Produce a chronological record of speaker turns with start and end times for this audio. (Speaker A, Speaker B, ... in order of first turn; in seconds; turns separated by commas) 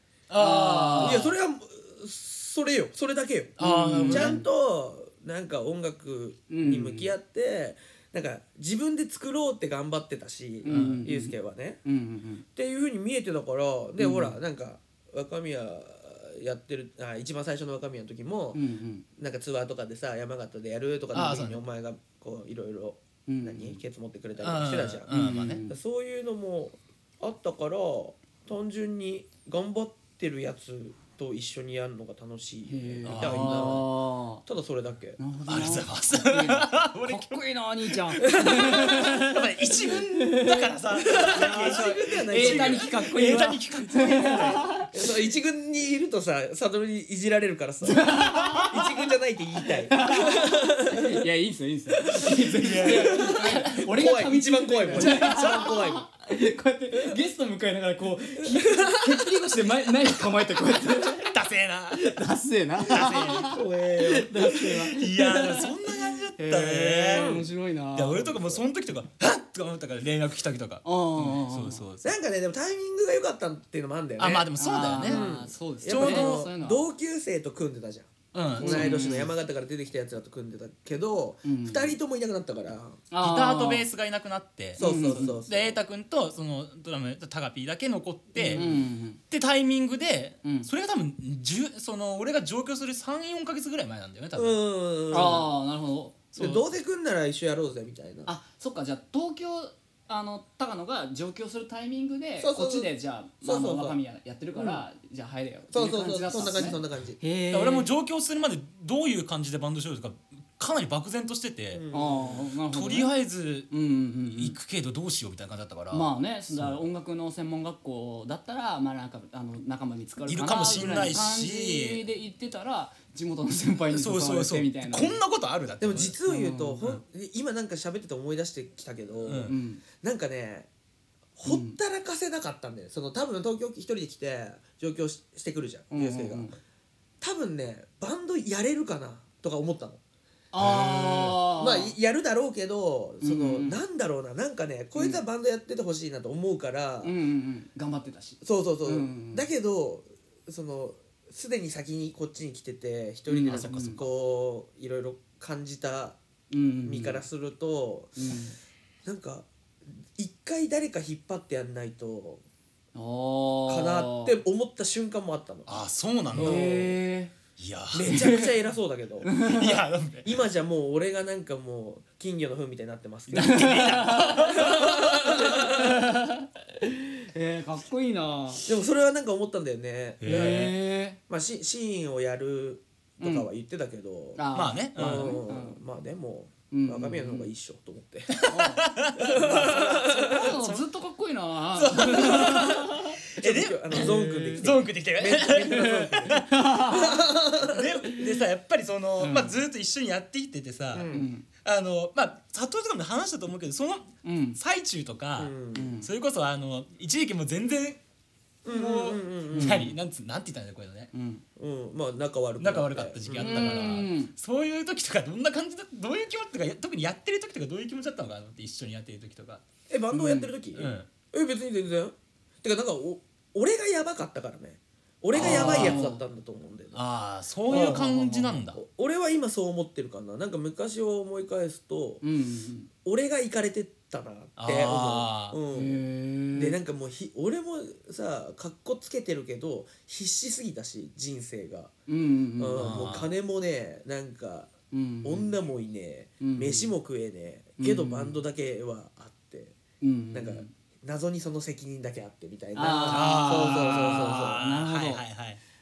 Speaker A: 0.3-1.3, Speaker B: 0.3-1.3, Speaker C: 1.0-11.8, Speaker A: 3.6-4.4, Speaker B: 3.6-4.4, Speaker B: 6.5-7.1, Speaker B: 10.6-12.4, Speaker A: 10.7-11.0, Speaker C: 12.6-18.6, Speaker B: 14.0-14.4, Speaker B: 18.5-19.0, Speaker C: 19.2-33.9, Speaker A: 21.1-21.6, Speaker B: 23.3-23.8, Speaker A: 24.4-25.6, Speaker B: 25.1-25.8, Speaker B: 32.7-34.4, Speaker A: 33.0-33.8, Speaker C: 34.4-35.2, Speaker B: 35.2-44.9, Speaker A: 35.5-44.8, Speaker C: 38.3-38.8, Speaker C: 40.9-51.2, Speaker B: 47.8-48.9, Speaker B: 49.8-61.3, Speaker C: 52.0-56.1, Speaker A: 52.6-53.7, Speaker A: 54.9-55.8, Speaker C: 58.4-59.4, Speaker A: 61.2-62.1, Speaker B: 61.9-68.4, Speaker A: 62.9-63.6, Speaker C: 62.9-64.9, Speaker A: 64.7-67.4, Speaker C: 67.1-67.5, Speaker A: 67.9-72.1, Speaker B: 70.8-71.9, Speaker C: 72.0-83.0, Speaker A: 74.2-75.2, Speaker B: 74.5-76.8, Speaker A: 75.8-76.5, Speaker A: 78.3-79.1, Speaker B: 78.6-79.3, Speaker B: 81.4-82.0, Speaker B: 83.1-83.9, Speaker A: 83.2-88.7, Speaker C: 84.8-85.8, Speaker B: 84.8-85.4, Speaker C: 88.3-88.8, Speaker B: 88.5-89.2, Speaker A: 89.3-94.6, Speaker B: 90.4-90.7, Speaker C: 94.3-95.5, Speaker B: 95.1-96.2, Speaker A: 96.3-96.6, Speaker C: 96.3-98.3, Speaker B: 98.2-107.9, Speaker C: 102.4-102.9, Speaker C: 103.4-104.0, Speaker C: 104.5-104.8, Speaker C: 105.7-107.2, Speaker A: 107.5-111.8, Speaker C: 111.7-112.4, Speaker B: 111.9-113.1, Speaker A: 112.7-113.7, Speaker B: 113.7-114.6, Speaker A: 114.3-116.8, Speaker B: 115.9-125.2, Speaker A: 120.3-122.0, Speaker A: 123.9-126.2, Speaker C: 125.8-130.7, Speaker B: 126.2-126.8, Speaker A: 129.2-129.6, Speaker B: 129.4-129.8, Speaker C: 131.3-136.5, Speaker B: 131.4-131.8, Speaker B: 135.9-136.5, Speaker C: 137.2-140.0, Speaker B: 140.5-141.9, Speaker A: 140.6-141.4, Speaker C: 141.5-147.1, Speaker B: 143.2-143.8, Speaker B: 144.9-145.2, Speaker B: 147.0-149.5, Speaker C: 148.4-156.2, Speaker B: 153.3-154.0, Speaker B: 156.5-157.2, Speaker C: 156.8-158.1, Speaker B: 158.2-158.5, Speaker C: 159.0-159.5, Speaker C: 160.1-162.4, Speaker B: 162.9-164.4, Speaker C: 163.7-165.8, Speaker A: 165.7-166.7, Speaker C: 166.3-166.9, Speaker B: 166.3-167.3, Speaker A: 167.6-168.2, Speaker C: 167.9-169.3, Speaker B: 168.1-168.5, Speaker B: 169.2-169.8, Speaker A: 169.4-170.4, Speaker C: 170.2-173.8, Speaker B: 173.3-178.7, Speaker A: 173.3-175.6, Speaker C: 174.5-175.9, Speaker C: 178.7-180.7, Speaker A: 180.2-180.7, Speaker B: 180.2-181.2, Speaker C: 181.3-184.4, Speaker B: 183.2-183.5, Speaker B: 184.3-185.8, Speaker A: 184.5-185.4, Speaker C: 184.9-188.4, Speaker B: 186.7-187.5, Speaker A: 188.3-190.8, Speaker B: 188.4-193.2, Speaker C: 189.2-190.5, Speaker A: 191.7-196.6, Speaker C: 192.3-192.7, Speaker C: 193.4-198.0, Speaker B: 193.9-194.7, Speaker B: 196.3-197.3, Speaker A: 197.6-208.0, Speaker B: 199.2-199.6, Speaker C: 200.9-201.3, Speaker B: 201.1-201.4, Speaker B: 204.2-204.6, Speaker C: 205.4-206.0, Speaker B: 205.7-206.1, Speaker C: 208.6-209.9, Speaker A: 208.6-211.1, Speaker B: 209.5-209.9, Speaker B: 211.1-211.4, Speaker C: 211.6-213.8, Speaker A: 212.6-219.6, Speaker B: 213.4-214.3, Speaker C: 219.9-227.0, Speaker B: 220.1-220.5, Speaker A: 220.7-221.1, Speaker A: 225.3-226.0, Speaker B: 225.3-226.2, Speaker A: 226.9-228.8, Speaker C: 227.7-228.1, Speaker B: 227.7-228.6, Speaker C: 228.7-232.2, Speaker B: 232.2-232.9, Speaker C: 233.0-236.0, Speaker A: 234.6-235.6, Speaker B: 235.7-236.8, Speaker C: 236.5-241.9, Speaker B: 242.1-243.1, Speaker C: 242.6-244.7, Speaker A: 242.8-243.3, Speaker B: 244.9-245.5, Speaker C: 245.2-249.8, Speaker B: 246.4-246.9, Speaker B: 247.8-248.4, Speaker B: 250.0-250.7, Speaker C: 250.3-254.6, Speaker B: 252.8-255.2, Speaker A: 253.1-255.6